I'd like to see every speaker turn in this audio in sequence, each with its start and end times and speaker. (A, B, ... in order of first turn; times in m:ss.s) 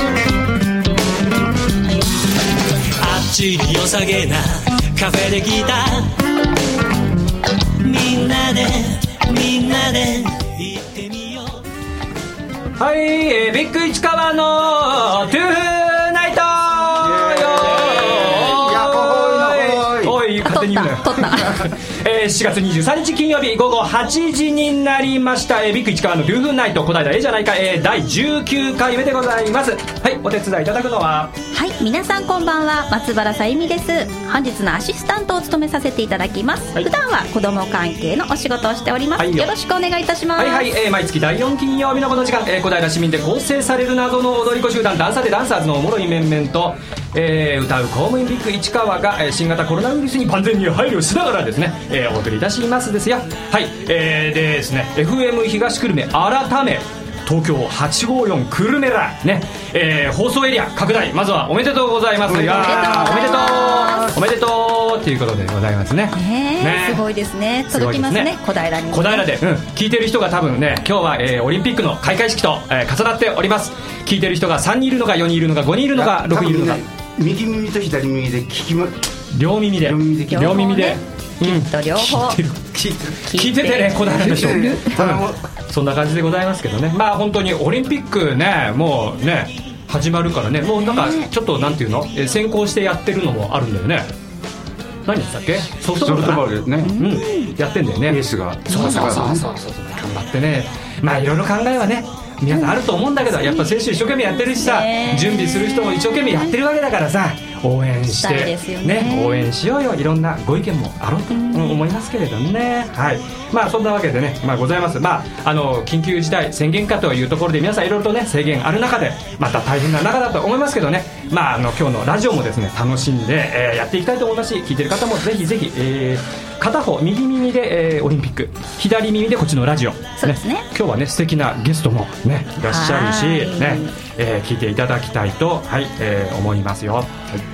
0:03.3-0:05.7 A
0:08.2-0:10.5 A
0:12.8-0:31.3 B
0:17.0-0:20.2 C
0:20.4-0:21.6 D
0:31.5-0:40.7 D
0:39.2-0:39.5 B
0:40.4-1:07.0 B
1:02.3-1:03.0 C
1:02.4-1:04.2 D
1:06.1-1:09.3 D
1:07.7-1:08.3 B
1:08.9-1:16.8 B
1:15.9-1:19.0 C
1:19.3-1:34.1 B
1:19.8-1:20.7 C
1:20.3-1:22.4 D
1:23.2-1:24.8 D
1:24.0-1:25.4 C
1:30.8-1:31.3 D
1:35.0-2:17.3 B
1:35.9-1:37.0 C
1:36.8-1:37.5 D
1:38.1-1:39.5 C
1:38.7-1:39.1 D
1:44.2-1:46.4 D
1:48.1-1:49.5 D
1:51.3-1:51.8 D
2:10.2-2:10.6 D
2:12.6-2:13.9 D